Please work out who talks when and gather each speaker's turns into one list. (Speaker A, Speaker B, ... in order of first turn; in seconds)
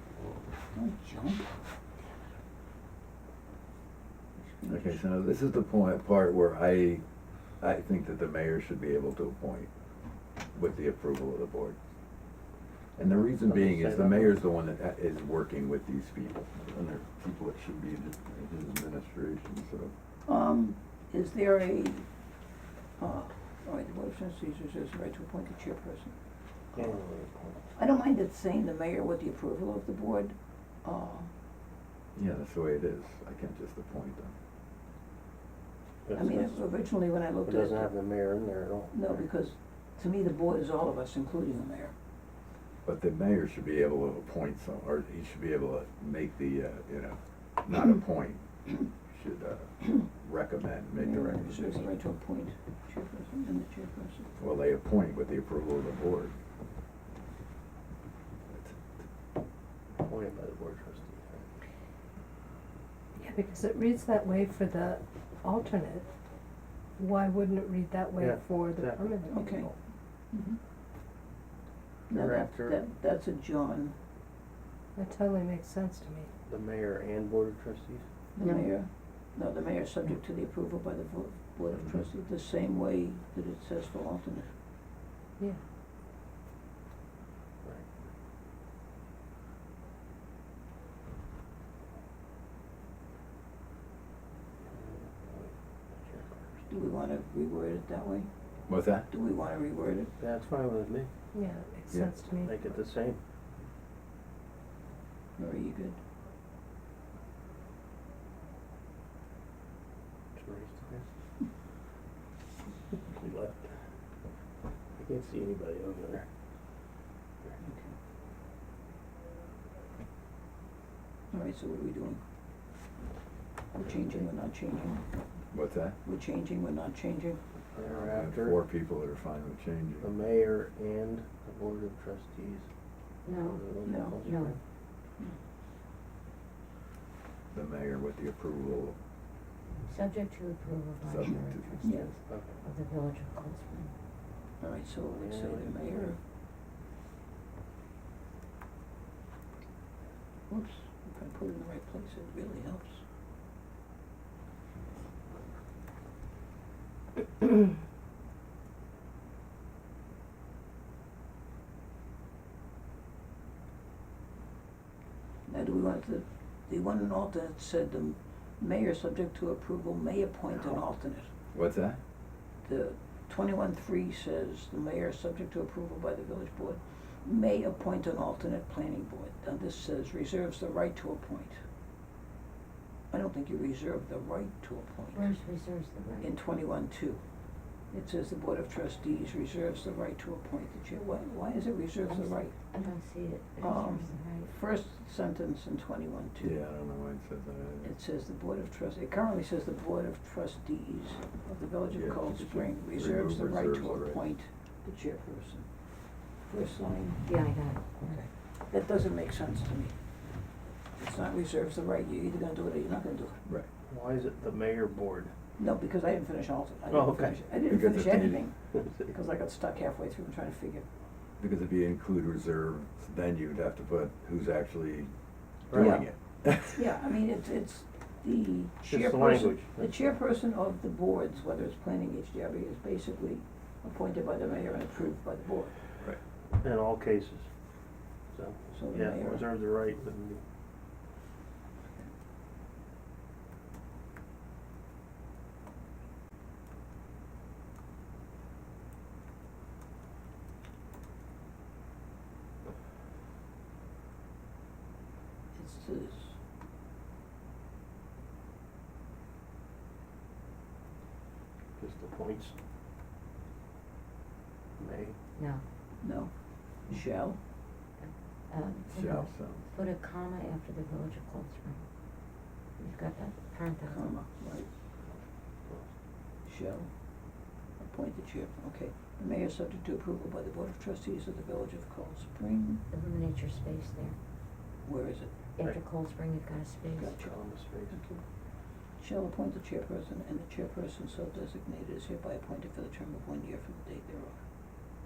Speaker A: 0.7-1.5, 4.4-5.0, 20.2-22.1, 23.0-26.2, 26.7-27.0, 27.7-31.3, 36.1-37.9, 38.9-41.9, 51.0-54.3, 69.3-69.7, 70.3-70.6, 72.1-73.9, 78.3-84.5, 96.7-98.3, 99.1-100.1, 105.4-106.0, 117.6-117.9, 121.3-122.2, 123.7-125.0, 126.0-127.4, 133.8-134.2, 141.8-142.1, 144.6-146.2, 150.5-153.0, 165.5-171.3, 172.6-181.6, 183.1-185.3, 186.2-187.2, 187.9-192.6, 193.6-196.6, 197.8-210.0, 210.9-213.4, 215.6-220.8, 225.7-235.9, 238.7-239.4, 255.5-256.4, 266.0-267.4, 273.8-274.7, 276.4-276.9, 277.8-282.8, 284.8-285.4, 287.0-288.2, 288.9-294.4
Speaker B: 4.7-7.0, 7.6-9.7, 10.5-11.8, 13.0-19.9, 32.1-34.3, 42.8-51.9, 54.4-56.4, 58.5-58.8, 81.7-82.0, 98.7-99.1, 101.9-102.1, 125.5-126.0, 127.8-130.1, 137.5-139.0, 141.0-141.8, 171.5-172.0, 196.4-198.0, 201.9-204.2, 217.6-218.5, 221.4-225.1, 225.7-226.8, 268.9-269.7
Speaker C: 13.0-14.4, 26.7-27.7, 36.0-39.3, 59.9-61.5, 68.2-69.8, 72.1-72.8, 76.5-78.1, 87.6-87.9, 94.6-96.7, 100.2-101.1, 102.4-103.2, 110.3-111.0, 112.9-114.0, 114.9-116.3, 127.7-128.6, 130.0-132.7, 133.2-134.6, 142.3-142.6, 145.1-146.1, 213.8-215.3, 216.9-217.5, 225.7-226.0, 228.8-229.9, 236.6-237.6, 238.3-240.5, 261.8-262.6, 264.8-265.2, 275.1-275.9, 286.9-288.2
Speaker D: 63.2-66.1, 67.0-69.7, 75.0-76.3, 101.3-102.6
Speaker E: 78.4-78.7, 133.2-134.6, 139.8-143.9, 185.1-186.3, 192.1-194.5, 207.2-208.2, 265.4-265.6, 268.0-271.8, 272.8-274.1, 282.9-284.2, 285.6-287.2